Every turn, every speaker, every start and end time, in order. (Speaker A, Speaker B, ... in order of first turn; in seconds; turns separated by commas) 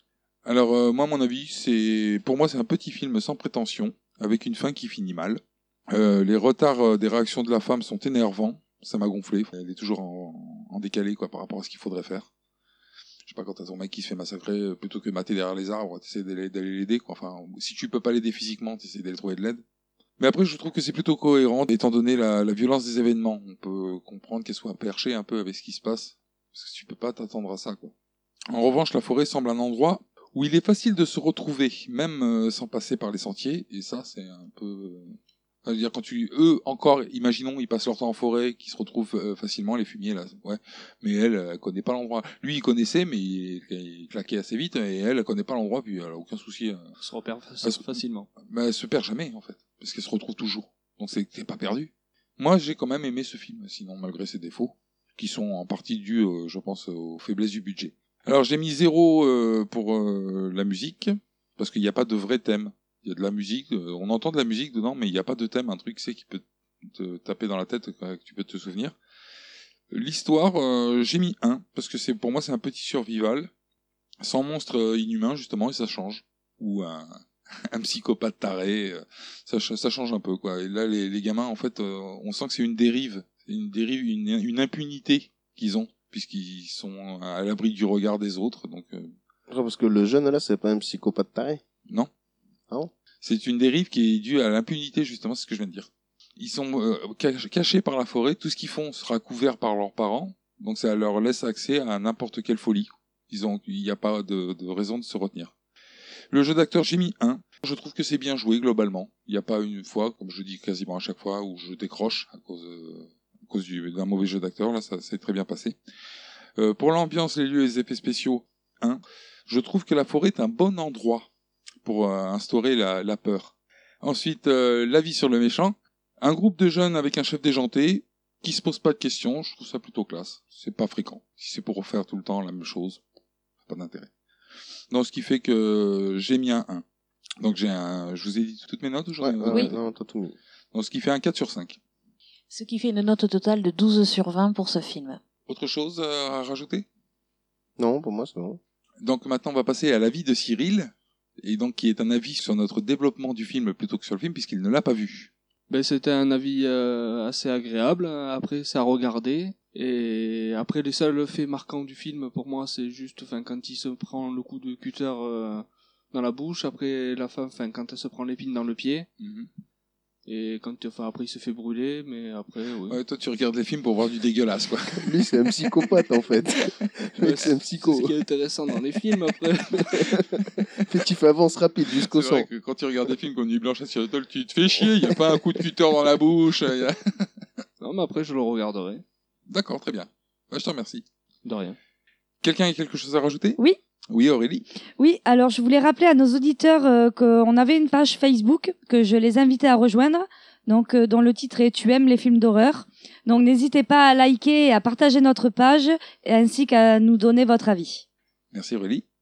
Speaker A: 0.5-12.3, Speaker A: 13.2-19.6, Speaker A: 20.2-27.9, Speaker A: 28.5-46.8, Speaker B: 47.0-48.3, Speaker A: 47.6-69.0, Speaker A: 69.9-73.5, Speaker A: 74.2-89.1, Speaker C: 89.5-91.6, Speaker A: 93.2-105.5, Speaker A: 106.3-115.8, Speaker A: 116.6-121.3, Speaker A: 121.8-133.0, Speaker A: 133.7-134.1, Speaker A: 134.9-136.8, Speaker A: 137.4-139.8, Speaker C: 139.2-140.3, Speaker A: 140.7-141.8, Speaker D: 142.5-145.2, Speaker A: 145.5-146.9, Speaker C: 147.8-148.6, Speaker A: 149.0-155.3, Speaker B: 155.7-169.1, Speaker A: 169.2-169.5, Speaker B: 170.3-173.0, Speaker A: 172.9-175.2, Speaker C: 175.0-178.1, Speaker B: 177.2-179.9, Speaker C: 179.8-180.3, Speaker C: 180.8-182.5, Speaker A: 182.0-187.3, Speaker B: 187.8-189.0, Speaker A: 189.5-191.0, Speaker B: 191.4-191.8, Speaker A: 192.4-193.6, Speaker A: 194.1-194.7, Speaker E: 195.0-208.1, Speaker A: 208.5-209.0